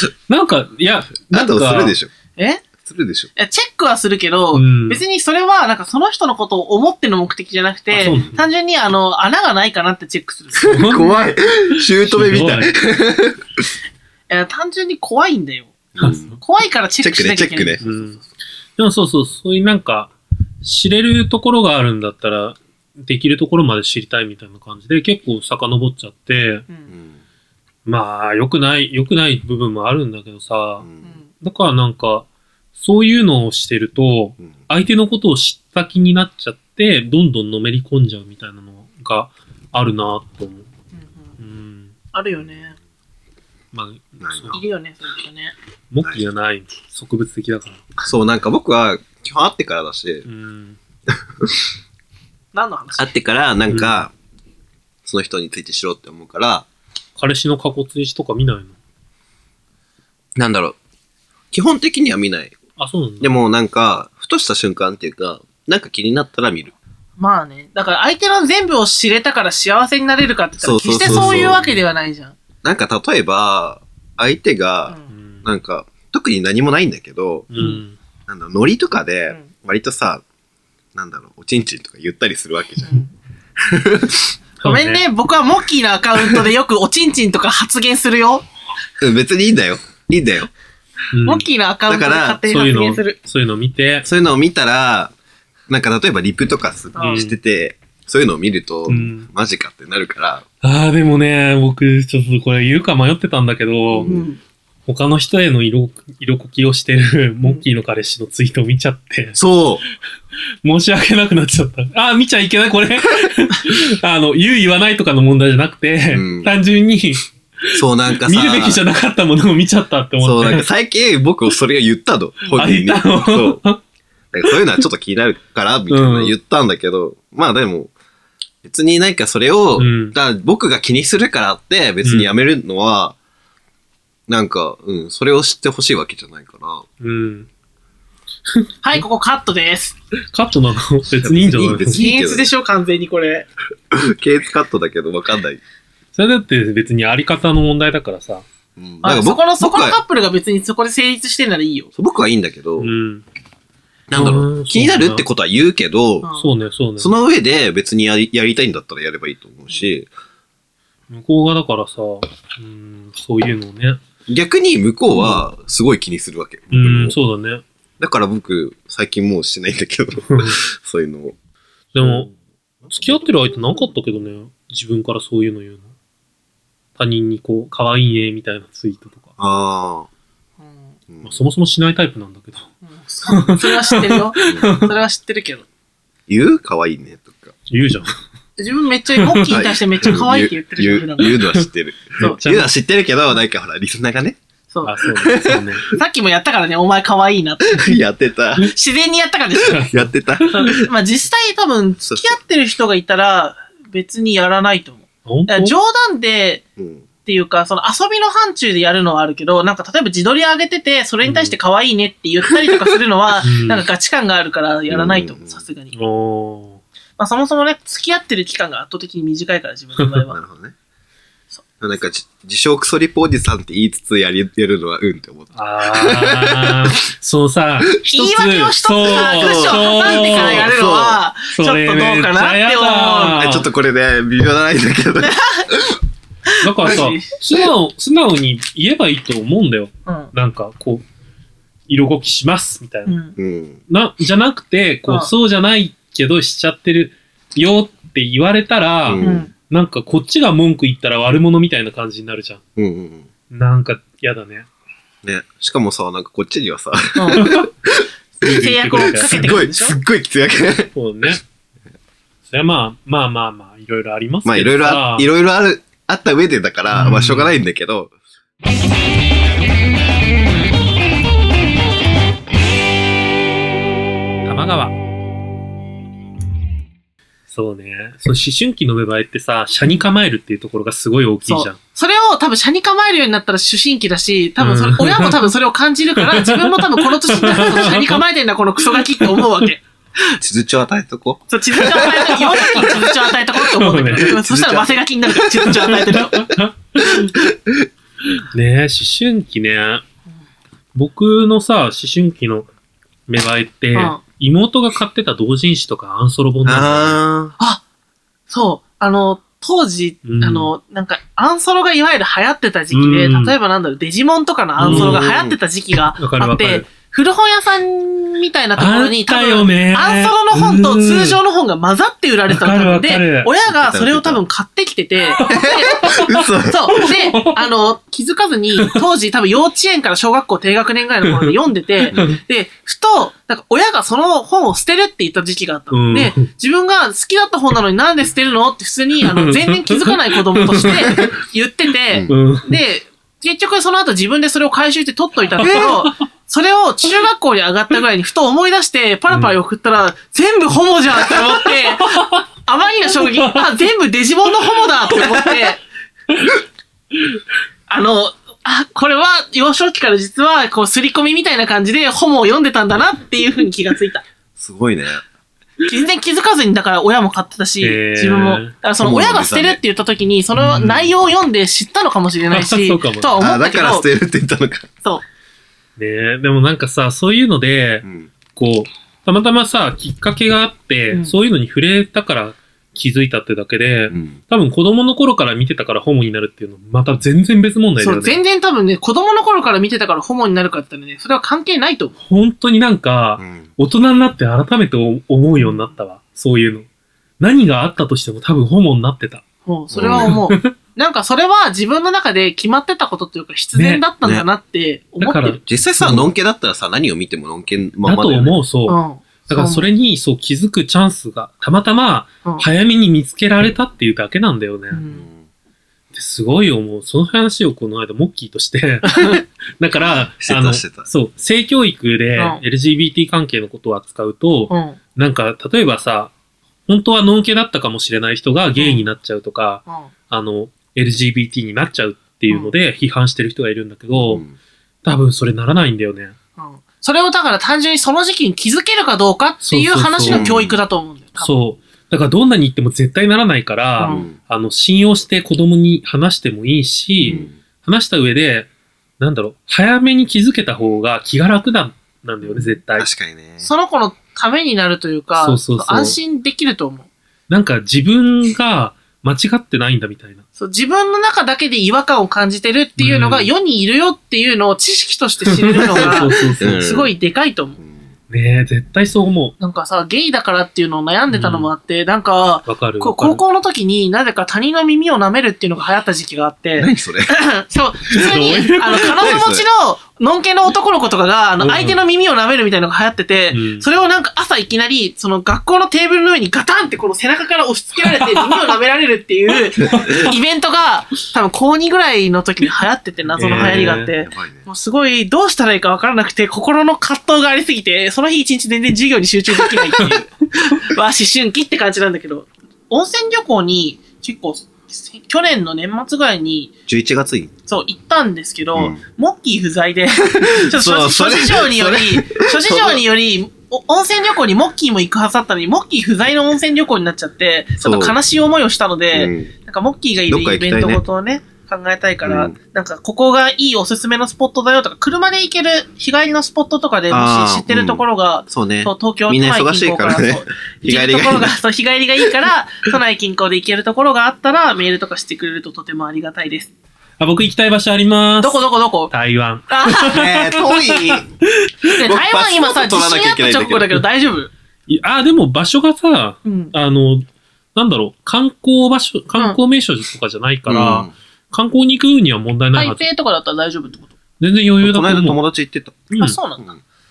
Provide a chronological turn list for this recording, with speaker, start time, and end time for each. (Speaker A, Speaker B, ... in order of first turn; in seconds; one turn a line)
Speaker A: 0.3-2.0
Speaker B: 1.3-2.1
Speaker C: 2.4-2.6
Speaker B: 2.8-3.3
Speaker C: 3.4-11.0
Speaker A: 4.5-5.0
Speaker A: 7.9-8.5
Speaker B: 10.6-13.7
Speaker A: 10.6-11.1
Speaker A: 11.8-12.8
Speaker C: 14.3-15.8
Speaker B: 16.0-16.3
Speaker A: 16.0-16.4
Speaker C: 16.3-18.2
Speaker B: 17.0-17.8
Speaker A: 17.8-18.2
Speaker A: 18.8-26.7
Speaker B: 26.9-27.2
Speaker A: 27.9-30.9
Speaker B: 30.8-31.1
Speaker C: 31.0-31.3
Speaker A: 31.4-40.7
Speaker C: 41.0-41.4
Speaker A: 41.4-41.9
Speaker C: 42.1-42.8
Speaker A: 43.7-44.6
Speaker B: 44.2-44.6
Speaker C: 44.5-45.5
Speaker A: 45.9-47.8
Speaker B: 48.0-50.3
Speaker A: 50.3-50.8
Speaker B: 51.1-51.6
Speaker C: 52.5-53.1
Speaker B: 53.0-54.1
Speaker A: 53.7-54.0
Speaker B: 55.0-56.7
Speaker A: 57.2-58.8
Speaker B: 60.4-60.8
Speaker B: 61.5-62.5
Speaker A: 62.8-63.4
Speaker B: 63.2-66.7
Speaker C: 67.2-72.4
Speaker B: 70.6-71.6
Speaker A: 71.0-71.8
Speaker B: 72.6-77.5
Speaker A: 75.1-75.5
Speaker A: 77.5-78.0
Speaker B: 78.3-80.2
Speaker B: 81.0-83.0
Speaker B: 83.6-84.3
Speaker A: 84.6-85.0
Speaker C: 84.6-88.5
Speaker B: 89.0-90.5
Speaker A: 91.1-91.5
Speaker C: 91.2-93.2
Speaker B: 91.9-92.4
Speaker A: 92.5-94.1
Speaker B: 94.0-95.1
Speaker B: 95.7-100.4
Speaker C: 97.0-97.2
Speaker A: 97.0-97.3
Speaker A: 98.9-99.3
Speaker A: 100.6-104.2
Speaker B: 103.9-104.2
Speaker C: 104.0-104.4
Speaker A: 104.9-109.4
Speaker B: 109.4-109.8
Speaker A: 110.6-120.7
Speaker B: 116.1-116.5
Speaker B: 117.7-118.8
Speaker B: 120.2-123.6
Speaker A: 122.5-123.8
Speaker B: 124.3-127.9
Speaker A: 125.9-126.3
Speaker B: 128.6-133.2
Speaker A: 129.8-130.2
Speaker A: 132.0-132.3
Speaker B: 134.3-136.9
Speaker A: 137.0-137.5
Speaker A: 138.6-139.0
Speaker C: 138.8-140.0
Speaker A: 140.3-142.0
Speaker B: 141.2-142.5
Speaker C: 141.9-143.5
Speaker B: 143.9-145.6
Speaker A: 146.2-148.4
Speaker B: 148.8-150.0
Speaker C: 149.0-151.9
Speaker B: 152.0-152.9
Speaker A: 152.8-153.2
Speaker B: 154.1-156.3
Speaker A: 154.1-155.2
Speaker A: 156.4-157.1
Speaker B: 157.0-160.1
Speaker A: 161.1-164.0
Speaker B: 164.3-167.2
Speaker A: 165.2-165.4
Speaker A: 166.7-167.6
Speaker B: 168.0-171.3
Speaker A: 170.3-170.6
Speaker A: 171.9-172.3
Speaker B: 172.0-172.3
Speaker B: 172.8-173.3
Speaker A: 172.9-175.9
Speaker A: 177.0-179.3
Speaker B: 179.4-180.1
Speaker C: 180.6-180.9
Speaker B: 181.1-181.3
Speaker A: 181.2-182.7
Speaker C: 182.9-185.7
Speaker A: 183.3-184.9
Speaker B: 186.3-187.5
Speaker A: 187.7-188.1
Speaker C: 188.6-191.4
Speaker A: 189.2-189.6
Speaker B: 189.5-194.4
Speaker A: 192.2-192.7
Speaker C: 194.7-195.0
Speaker A: 194.8-195.9
Speaker B: 195.2-195.8
Speaker C: 195.9-198.0
Speaker B: 197.7-198.7
Speaker C: 198.6-199.9
Speaker A: 199.6-200.7
Speaker B: 199.7-200.9
Speaker C: 200.5-206.6
Speaker B: 202.1-202.4
Speaker A: 205.3-205.8
Speaker B: 206.8-207.1
Speaker C: 207.2-216.0
Speaker A: 211.2-211.6
Speaker A: 213.4-213.9
Speaker B: 214.9-215.6
Speaker A: 215.9-216.8
Speaker C: 217.2-220.4
Speaker B: 220.3-220.7
Speaker B: 221.8-226.9
Speaker A: 225.5-230.7
Speaker C: 228.1-233.4
Speaker B: 229.0-231.2
Speaker A: 231.5-233.7
Speaker B: 233.4-236.0
Speaker C: 235.2-235.7
Speaker C: 236.5-237.4
Speaker A: 236.6-241.0
Speaker A: 241.9-243.2
Speaker C: 243.1-243.3
Speaker B: 243.4-243.8
Speaker A: 243.9-252.6
Speaker B: 249.1-249.5
Speaker C: 249.2-249.5
Speaker B: 252.8-253.3
Speaker A: 253.5-254.7
Speaker B: 255.2-258.1
Speaker C: 257.1-257.6
Speaker A: 257.4-257.7
Speaker A: 258.4-259.6
Speaker C: 258.4-260.0
Speaker B: 259.0-260.9
Speaker A: 260.9-261.4
Speaker A: 262.5-265.3
Speaker B: 264.4-268.1
Speaker A: 266.9-267.5
Speaker A: 274.4-274.9
Speaker A: 277.5-281.8
Speaker C: 281.4-289.8
Speaker A: 284.6-285.5
Speaker A: 286.2-288.2
Speaker A: 289.0-289.5
Speaker B: 290.4-293.0
Speaker C: 291.5-296.5
Speaker A: 292.0-293.0
Speaker A: 293.7-294.4
Speaker B: 294.2-295.8
Speaker A: 295.7-297.3
Speaker B: 297.0-297.9
Speaker A: 298.4-300.0
Speaker A: 300.9-302.7
Speaker A: 303.3-307.2
Speaker C: 303.9-304.2
Speaker B: 306.6-307.6
Speaker C: 308.5-355.8
Speaker A: 310.2-310.7
Speaker A: 312.9-313.6
Speaker A: 314.8-315.2
Speaker B: 314.8-315.6
Speaker A: 316.2-316.9
Speaker A: 318.8-321.4
Speaker A: 322.5-323.5
Speaker B: 323.7-324.4
Speaker A: 325.3-327.6
Speaker B: 325.4-327.0
Speaker A: 331.3-331.5
Speaker A: 332.1-332.4
Speaker A: 335.9-336.5
Speaker A: 339.2-341.3
Speaker A: 342.3-342.8
Speaker A: 345.6-346.2
Speaker A: 349.3-349.6
Speaker A: 351.3-352.4
Speaker A: 353.2-353.7
Speaker A: 355.1-355.4
Speaker C: 357.9-364.2
Speaker B: 364.6-365.2
Speaker C: 365.8-374.1
Speaker A: 367.8-368.7
Speaker B: 369.0-369.8
Speaker A: 370.6-371.1
Speaker A: 372.5-373.4
Speaker B: 373.4-374.9
Speaker A: 376.0-378.0
Speaker B: 378.0-378.3
Speaker A: 378.6-388.4
Speaker B: 384.1-384.4
Speaker C: 388.0-392.1
Speaker A: 392.2-396.9
Speaker B: 393.4-393.7
Speaker C: 395.6-395.9
Speaker A: 397.4-399.4
Speaker C: 399.7-405.6
Speaker B: 399.9-400.4
Speaker A: 400.1-400.7
Speaker A: 403.8-404.0
Speaker A: 405.2-406.3
Speaker B: 405.7-408.6
Speaker A: 408.0-415.0
Speaker C: 408.9-409.9
Speaker C: 414.9-415.2
Speaker B: 415.1-415.4
Speaker A: 416.1-426.3
Speaker C: 419.1-419.4
Speaker B: 420.4-421.1
Speaker C: 424.7-425.0
Speaker A: 426.9-434.4
Speaker C: 428.8-429.1
Speaker B: 434.1-434.5
Speaker A: 435.0-436.4
Speaker C: 436.6-441.5
Speaker A: 439.6-440.5
Speaker B: 440.3-440.8
Speaker A: 441.4-448.7
Speaker C: 444.0-444.3
Speaker B: 444.0-444.4
Speaker C: 447.2-447.5
Speaker A: 449.2-453.1
Speaker C: 452.4-452.8
Speaker B: 453.0-453.7
Speaker C: 453.6-457.1
Speaker A: 455.4-456.2
Speaker A: 457.5-460.4
Speaker C: 460.6-467.8
Speaker A: 463.0-463.5
Speaker A: 465.5-466.8
Speaker B: 466.6-467.1
Speaker A: 468.3-469.6
Speaker C: 469.6-506.7
Speaker A: 471.3-471.7
Speaker A: 472.7-473.4
Speaker B: 476.8-477.4
Speaker A: 478.1-479.2
Speaker B: 479.1-479.6
Speaker A: 481.6-482.0
Speaker A: 483.5-483.9
Speaker A: 488.1-488.7
Speaker A: 489.8-490.4
Speaker A: 493.3-494.1
Speaker B: 493.5-494.7
Speaker B: 506.9-507.5
Speaker C: 507.7-536.7
Speaker B: 510.4-513.0
Speaker B: 517.8-518.2
Speaker B: 519.1-519.5
Speaker B: 520.3-521.0
Speaker B: 522.2-522.5
Speaker B: 527.1-531.5
Speaker A: 537.2-542.0
Speaker C: 538.4-539.1
Speaker C: 539.7-540.2
Speaker B: 540.1-541.3
Speaker C: 541.9-544.5
Speaker B: 542.0-544.0
Speaker A: 544.9-553.1
Speaker C: 546.5-546.7
Speaker B: 550.7-551.1
Speaker C: 552.8-554.1
Speaker A: 554.4-555.4
Speaker B: 554.8-556.1
Speaker A: 556.1-556.4
Speaker C: 556.2-556.7